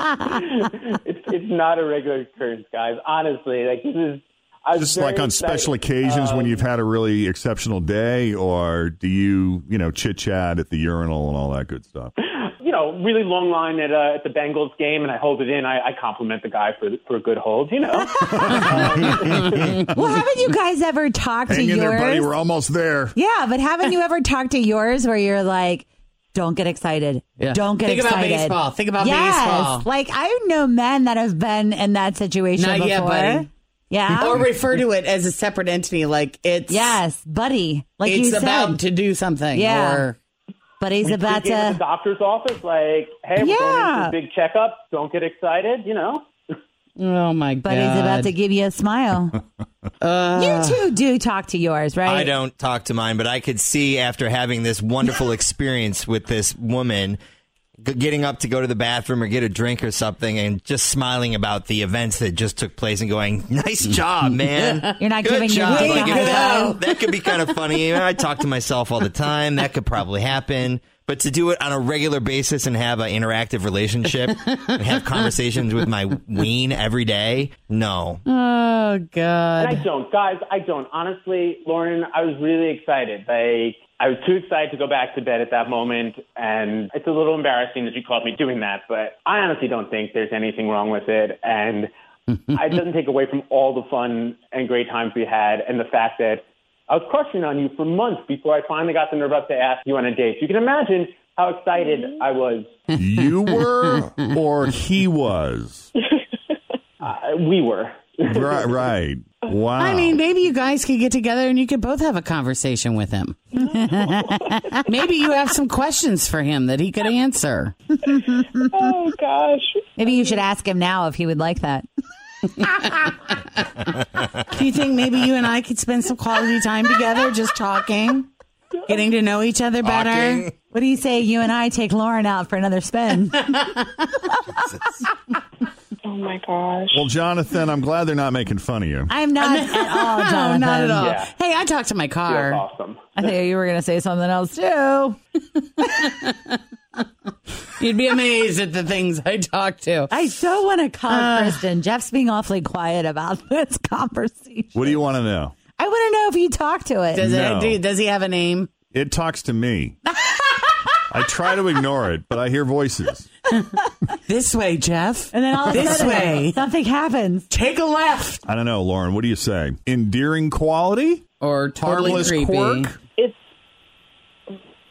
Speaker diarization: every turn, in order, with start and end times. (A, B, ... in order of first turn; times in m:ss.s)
0:00.3-0:06.6 A
0:04.8-0:12.1 B
0:12.2-0:19.6 A
0:18.2-0:19.9 B
0:19.9-0:22.3 C
0:21.5-0:23.2 B
0:23.1-0:34.5 C
0:27.4-0:29.9 D
0:32.6-0:33.5 D
0:34.1-0:37.0 D
0:36.7-0:38.8 C
0:38.0-0:40.2 D
0:39.5-0:40.1 C
0:40.8-0:41.8 C
0:41.0-0:46.3 A
0:43.4-0:44.1 C
0:47.0-0:48.3 D
0:47.6-0:49.4 C
0:50.0-0:50.8 D
0:50.3-0:52.3 C
0:52.0-0:57.2 E
0:57.8-1:18.2 E
1:04.5-1:04.8 D
1:05.0-1:06.7 C
1:05.7-1:08.1 D
1:14.1-1:15.4 D
1:18.3-1:19.8 D
1:19.6-1:31.9 A
1:32.5-1:42.7 A
1:42.9-1:44.3 D
1:43.0-1:45.9 B
1:47.0-1:48.8 A
1:48.3-1:50.2 B
1:49.8-1:53.6 D
1:53.6-1:54.8 C
1:54.8-1:57.8 D
1:58.7-2:00.4 F
2:00.0-2:01.9 C
2:02.4-2:03.7 D
2:04.5-2:08.3 D
2:08.9-2:10.5 D
2:09.8-2:10.5 E
2:10.7-2:14.3 C
2:16.0-2:17.0 F
2:16.9-2:19.1 B
2:19.1-2:21.1 C
2:19.4-2:22.6 D
2:21.0-2:21.3 A
2:22.2-2:23.0 A
2:23.2-2:25.2 C
2:25.6-2:27.0 D
2:27.8-2:30.1 D
2:30.1-2:35.0 C
2:31.1-2:31.6 D
2:34.7-2:35.5 B
2:35.8-2:37.3 C
2:37.1-2:38.7 D
2:37.2-2:37.8 B
2:38.9-2:40.0 B
2:41.1-2:43.3 B
2:44.2-2:46.6 D
2:45.3-2:47.5 C
2:47.5-2:48.4 D
2:48.4-2:51.2 B
2:51.4-2:52.9 D
2:51.8-2:53.0 B